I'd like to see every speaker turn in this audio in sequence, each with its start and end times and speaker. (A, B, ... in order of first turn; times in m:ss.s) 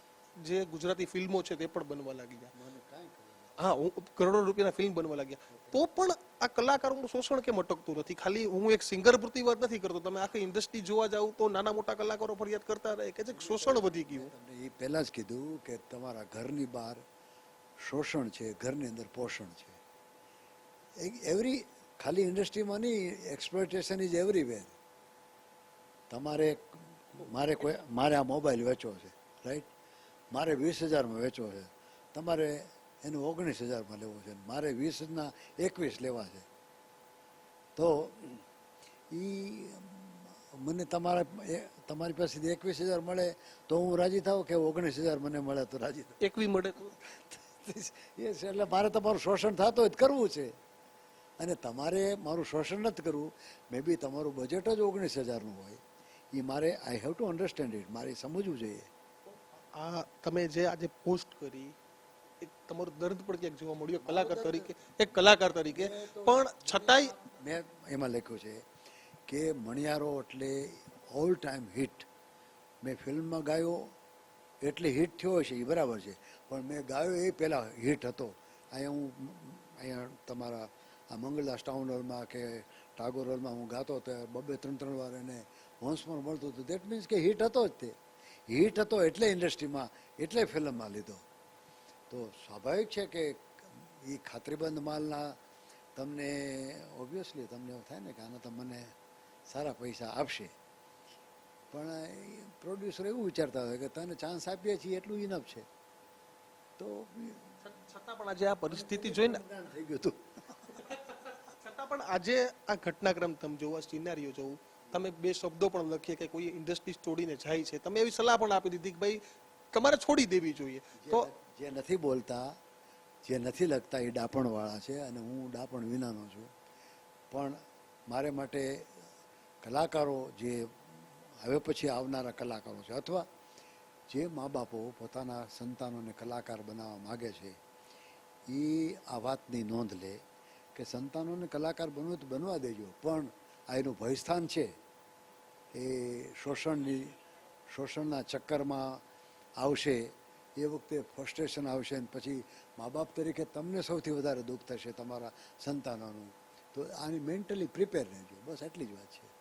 0:00.4-0:02.5 A
0:02.5-0:03.6 B
0:03.6-0:14.3 A
0:05.5-0:05.8 B
0:13.3-0:17.0 B
0:17.8-0:19.8 B
0:21.0-0:24.8 B
0:26.1-0:29.7 B
0:30.3-0:36.5 B
0:37.8-0:38.4 B
0:39.1-0:46.2 B
0:46.2-0:47.0 A
0:46.9-0:50.5 B
0:51.4-0:55.8 B
0:56.3-0:58.9 B
0:59.8-1:01.7 A
1:02.4-1:07.1 A
1:04.0-1:04.7 B
1:05.7-1:08.6 B
1:09.3-1:12.1 B
1:12.8-1:13.9 B
1:14.6-1:27.9 B
1:28.5-1:31.2 B
1:32.1-1:35.4 B
1:36.0-1:38.8 B
1:39.5-1:40.5 B
1:41.7-1:45.7 B
1:46.8-1:47.6 B
1:47.6-1:49.4 A
1:48.7-1:50.8 B
1:50.8-1:59.2 A
1:59.7-2:01.3 A
2:01.0-2:02.6 B
2:03.2-2:06.5 B
2:07.3-2:09.1 B
2:09.6-2:13.2 B
2:14.1-2:17.6 B
2:18.5-2:20.2 B
2:20.8-2:24.7 B
2:25.7-2:27.2 B
2:27.7-2:29.0 B
2:29.6-2:30.1 B
2:30.6-2:39.3 B